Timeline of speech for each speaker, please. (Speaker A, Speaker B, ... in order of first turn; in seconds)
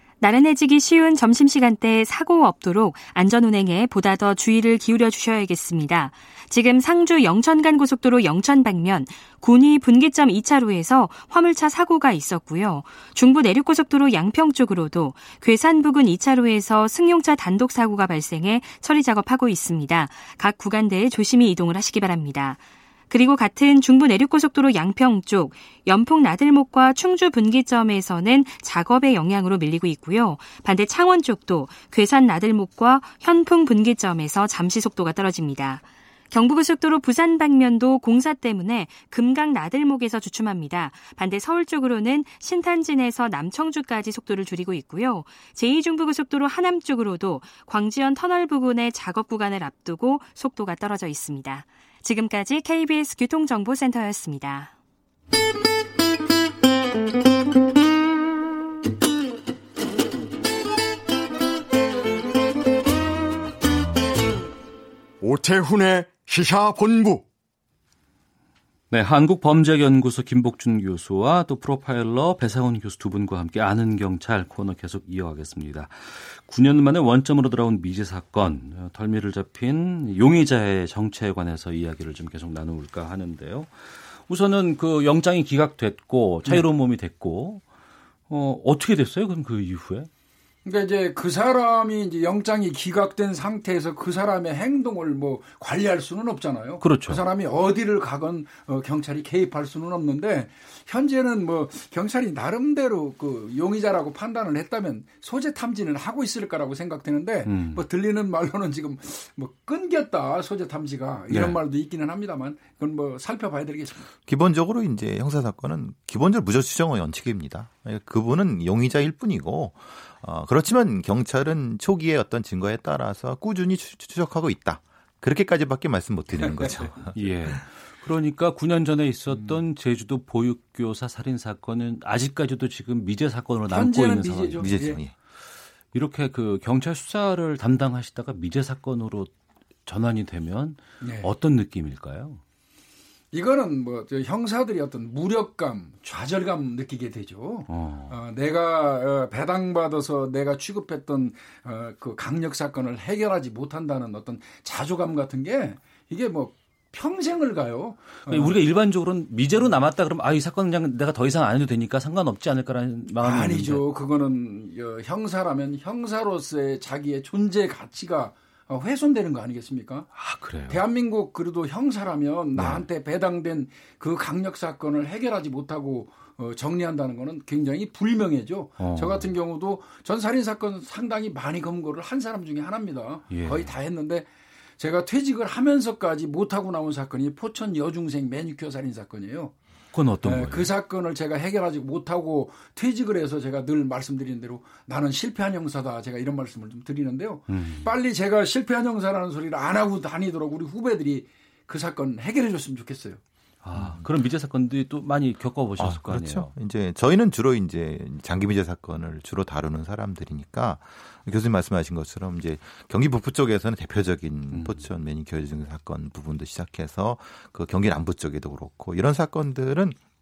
Speaker A: 0.2-54.7
Speaker B: 65.2-67.2
Speaker C: 68.9-87.6, 88.3-90.1, 96.8-97.2, 107.5-107.8, 111.3-111.6, 127.0-135.0, 135.9-139.3, 139.9-142.4, 147.7-148.2, 158.3-163.8, 170.1-170.8, 172.6-172.9, 178.8-179.3, 183.3-183.8, 189.9-190.7, 197.5-197.9, 203.6-206.5, 214.5-214.9
Speaker D: 90.6-114.1, 126.4-126.9, 133.7-135.0, 141.0-141.3, 143.3-158.6, 163.2-170.1, 170.7-184.3, 184.8-189.5, 190.2-203.2
Speaker E: 114.2-127.6, 134.6-135.1, 203.8-204.0, 205.8-220.0